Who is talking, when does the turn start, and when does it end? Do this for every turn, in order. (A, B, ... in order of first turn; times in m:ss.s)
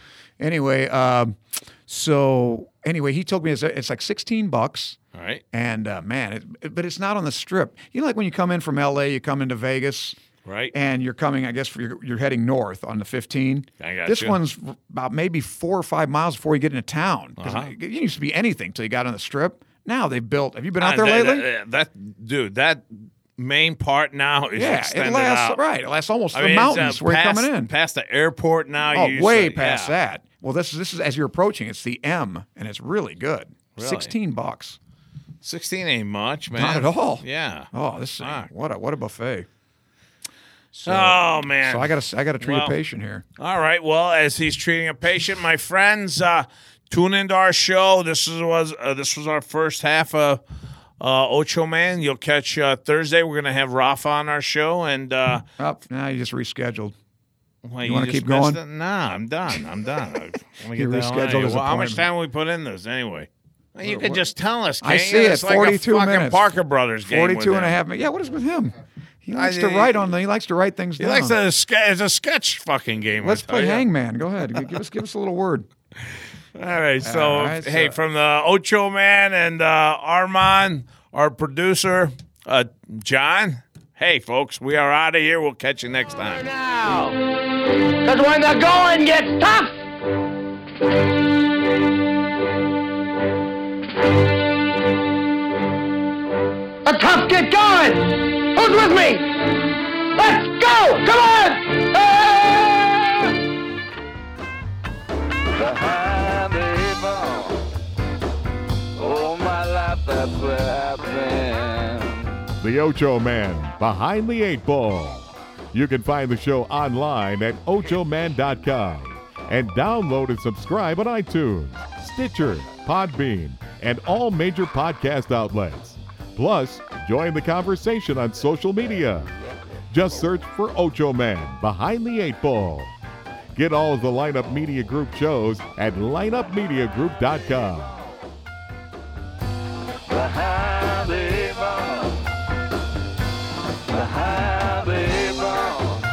0:00.4-0:05.0 A
0:05.1-0:05.4 B
0:05.5-0:10.2 A
0:10.4-0:10.7 B
0:10.7-0:21.4 A
0:13.8-0:14.4 B
0:17.4-0:17.7 B
0:20.8-0:25.6 B
0:24.6-0:27.7 A
0:26.3-0:29.9 B
0:28.9-0:34.8 A
0:33.8-0:34.1 B
0:35.4-0:38.5 B
0:36.6-0:39.5 A
0:40.7-0:42.8 B
0:40.8-0:43.2 A
0:43.4-0:50.4 B
0:51.0-0:55.4 B
0:55.6-0:57.0 A
0:57.6-1:07.8 B
0:57.8-0:58.6 A
1:00.7-1:02.0 A
1:03.8-1:04.2 A
1:04.8-1:06.4 A
1:07.0-1:11.4 A
1:09.3-1:10.0 B
1:11.0-1:13.9 B
1:13.2-1:15.7 A
1:16.6-1:27.1 B
1:17.0-1:18.0 A
1:28.0-1:29.8 C
1:36.8-1:43.3 C
1:46.4-1:47.4 D
1:49.1-1:52.2 D
1:52.6-2:09.4 E
2:09.9-2:12.9 E
2:13.5-2:18.0 E
2:20.8-2:21.8 E
2:24.6-2:25.6 E